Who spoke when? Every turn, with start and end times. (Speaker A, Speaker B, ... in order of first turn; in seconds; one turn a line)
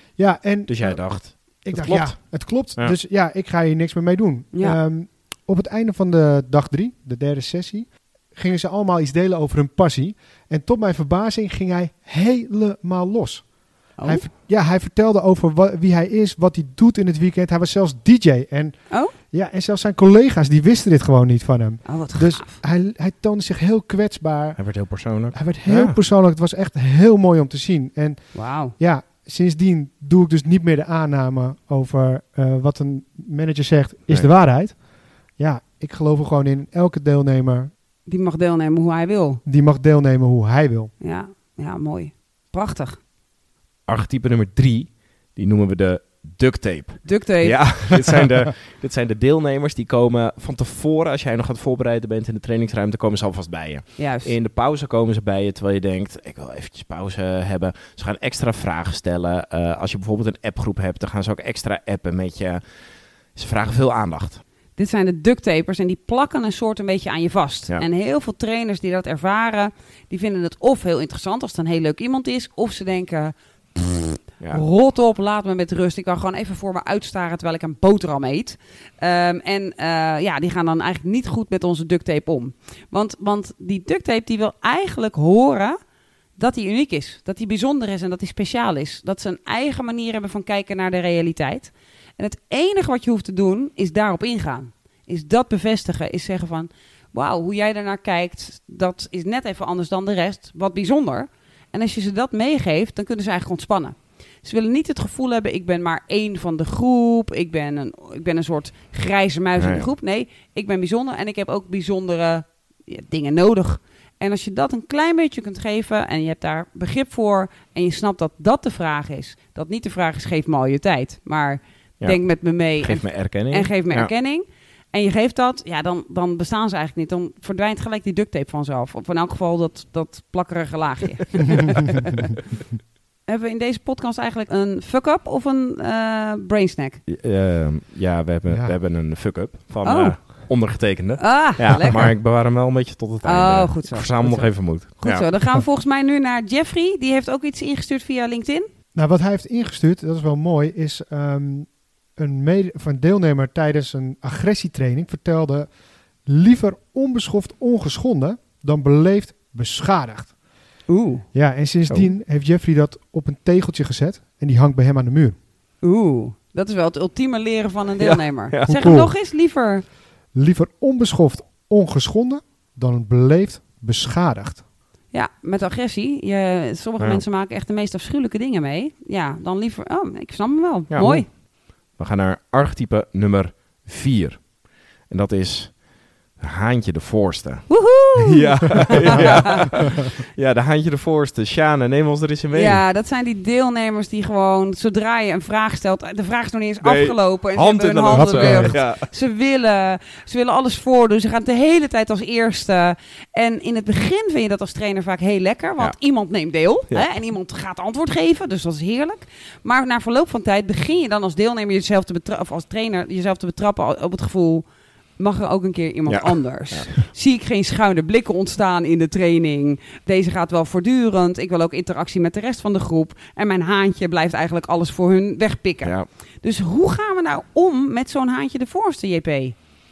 Speaker A: 0.2-24.7
Speaker B: 0.7-2.9
Speaker C: 14.0-14.3
Speaker C: 21.9-22.6
Speaker B: 24.6-26.0
Speaker A: 25.3-34.8
Speaker C: 28.3-28.7
Speaker A: 35.4-37.7
Speaker C: 38.1-39.4
Speaker A: 39.4-40.9
Speaker C: 41.0-43.0
Speaker B: 43.9-62.6
Speaker C: 47.0-47.7
Speaker C: 54.0-54.3
Speaker B: 63.3-64.4
Speaker C: 64.8-85.8
Speaker C: 86.4-132.3
Speaker B: 109.6-109.9
Speaker B: 122.0-124.1
Speaker C: 133.3-137.0
Speaker B: 137.1-145.2
Speaker A: 138.5-138.7
Speaker C: 139.8-140.2
Speaker C: 141.2-142.1
Speaker C: 143.2-148.7
Speaker A: 148.9-155.7
Speaker A: 156.2-160.3
Speaker C: 160.9-161.2
Speaker A: 161.3-165.3
Speaker C: 165.8-169.8
Speaker B: 168.0-168.9
Speaker A: 168.7-169.1
Speaker A: 170.3-174.6
Speaker C: 175.1-181.3
Speaker B: 180.9-181.3
Speaker B: 181.9-184.5
Speaker B: 185.1-185.8
Speaker B: 186.4-192.8
Speaker C: 187.7-189.7
Speaker A: 189.1-189.9
Speaker C: 192.5-214.6
Speaker B: 196.8-199.1
Speaker A: 198.1-198.8
Speaker C: 215.2-229.5
Speaker B: 216.1-216.9